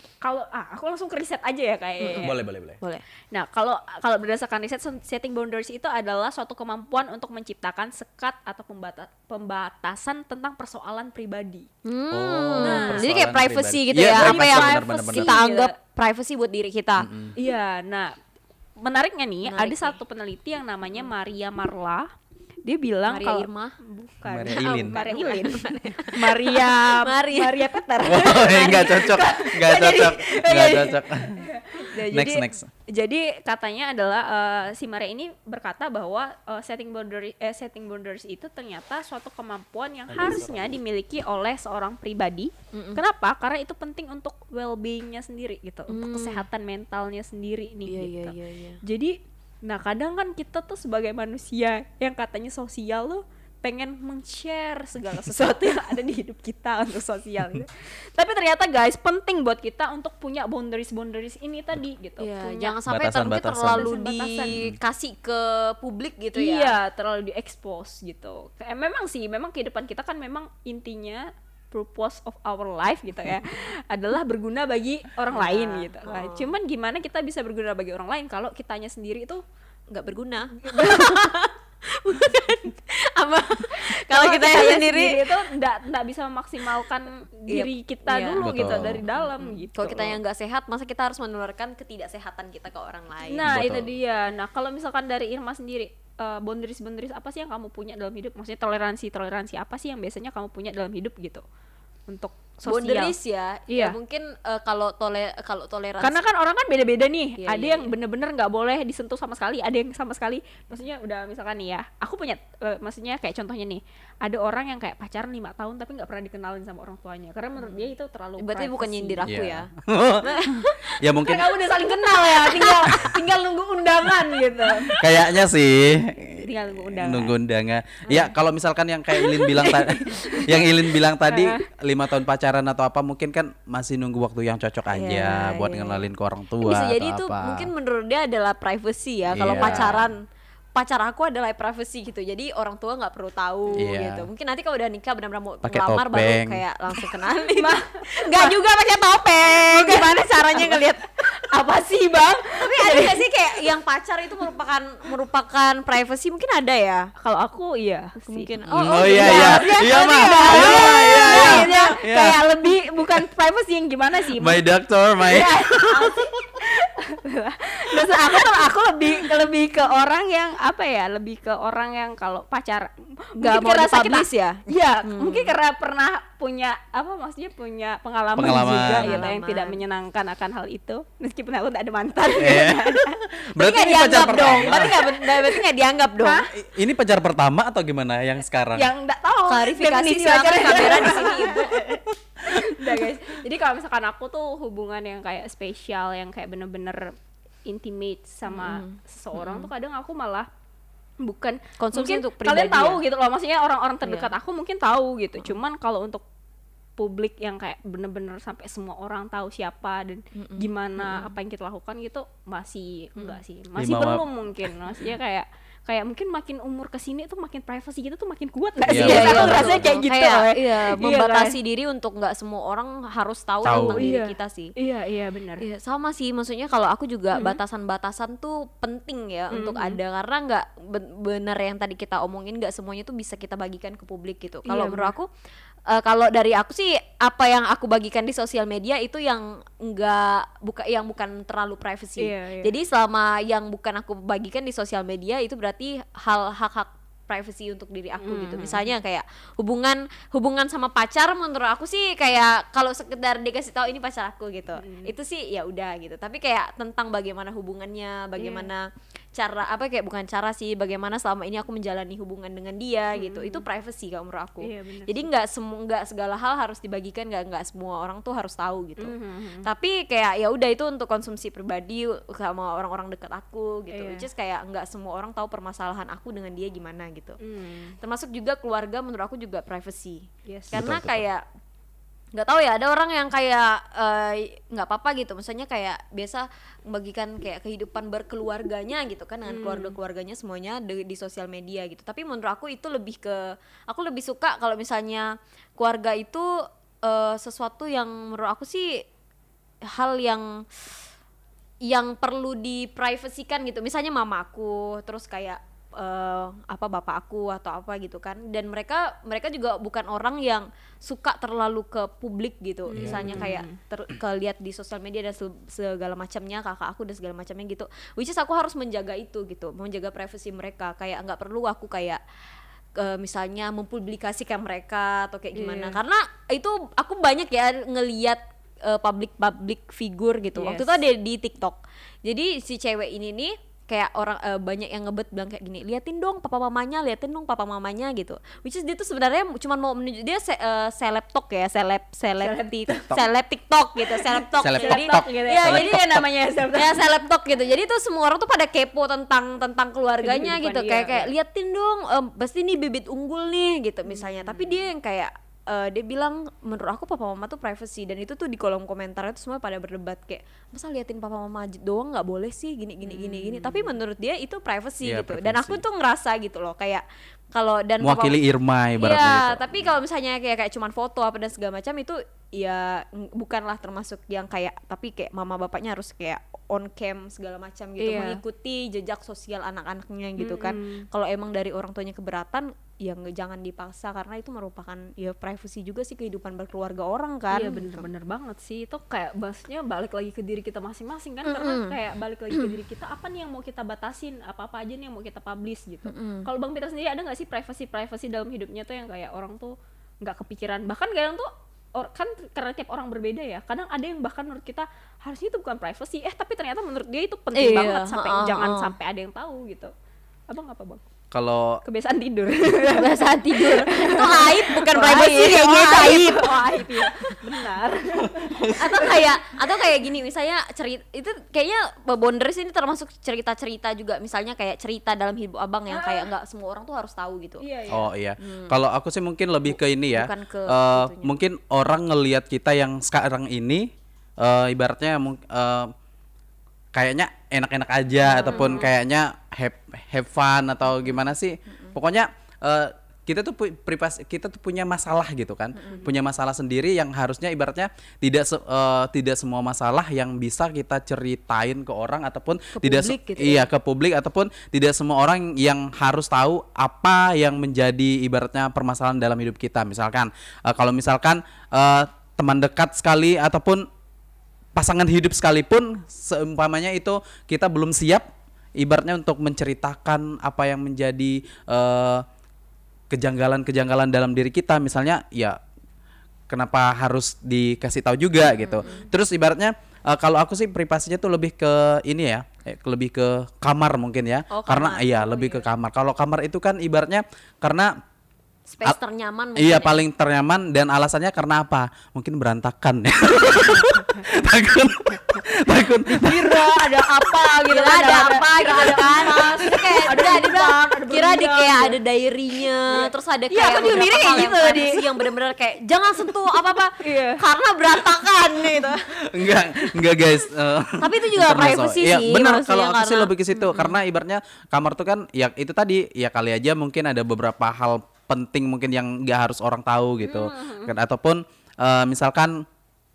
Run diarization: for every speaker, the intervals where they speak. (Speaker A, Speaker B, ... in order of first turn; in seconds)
Speaker A: 0.2-2.3, 3.3-11.7, 12.6-13.1, 14.1-15.7, 17.4-18.1, 18.8-22.1, 22.6-62.8, 63.7-64.5, 66.3-79.4, 80.6-81.3, 83.7-90.2, 93.2-101.4, 102.1-103.1, 103.7-104.0, 106.0-119.2, 121.2-125.0, 126.4-127.3, 129.2-131.6, 139.4-140.0, 147.5-148.6, 149.4-153.7, 157.2-164.6, 165.2-185.6, 186.2-186.5, 188.7-191.7, 192.4-197.1, 197.7-200.5, 201.2-206.2, 207.0-221.6, 223.9-225.6, 227.3-227.6, 229.5-230.0, 234.6-235.1, 242.2-242.7, 248.2-248.9, 254.8-255.1, 258.4-258.7, 263.1-263.6, 264.6-265.3, 269.0-269.7, 273.9-274.2, 277.4-277.9, 280.4-280.8, 289.4-290.0, 312.9-313.8, 325.5-326.0, 330.5-331.0, 342.4-343.2, 344.1-347.0, 350.2-351.3, 354.1-354.8, 363.0-363.9, 378.0-378.4, 380.4-381.1, 387.5-409.9, 410.5-411.0, 411.8-419.5, 425.9-426.3, 427.6-428.1, 438.3-438.9, 445.8-446.1, 493.5-494.2, 496.1-502.0, 502.9-505.1, 507.0-507.4
Speaker B: 2.0-3.0, 11.8-17.1, 19.4-20.0, 23.1-23.8, 24.5-30.0, 42.7-43.0, 45.9-46.4, 47.9-48.8, 62.2-66.7, 75.3-76.5, 79.9-85.4, 87.5-93.5, 102.7-106.2, 107.4-107.9, 118.4-119.7, 120.2-121.0, 122.0-123.0, 134.9-136.1, 136.6-140.2, 140.8-151.2, 152.4-157.1, 158.2-162.0, 173.4-175.5, 178.4-179.8, 183.6-186.4, 189.5-192.0, 198.5-199.7, 201.8-203.0, 204.0-204.3, 210.3-211.3, 218.9-224.7, 225.6-235.3, 235.9-277.4, 278.0-281.4, 282.3-296.5, 297.0-299.0, 299.8-300.9, 301.8-322.2, 322.9-368.4, 369.0-388.1, 391.4-392.0, 396.1-396.5, 407.5-408.9, 412.7-417.4, 418.7-427.6, 428.4-428.8, 429.7-431.3, 438.3-438.9, 445.8-446.0, 452.8-453.6, 478.5-479.1, 484.5-485.6, 488.7-489.9, 497.7-509.1, 511.0-513.9, 520.2-520.9
Speaker C: 2.2-2.8, 12.1-15.3, 17.0-17.3, 24.3-25.0, 28.0-32.7, 40.1-40.7, 62.9-63.9, 64.5-64.8, 88.4-89.0, 93.4-93.9, 119.2-121.5, 124.9-126.4, 127.0-137.7, 139.3-140.1, 143.8-144.3, 145.6-146.6, 158.7-162.4, 164.3-166.2, 178.3-179.3, 182.3-184.9, 186.5-188.9, 192.1-192.7, 213.8-214.2, 218.9-219.9, 223.6-224.1, 280.7-281.2, 312.9-313.5, 344.6-346.2, 365.0-365.8, 368.0-369.9, 411.3-411.8, 418.4-418.9, 427.9-433.9, 434.4-435.9, 436.9-463.9, 464.7-472.2, 473.1-475.6, 476.5-488.0, 489.6-496.7, 509.2-522.6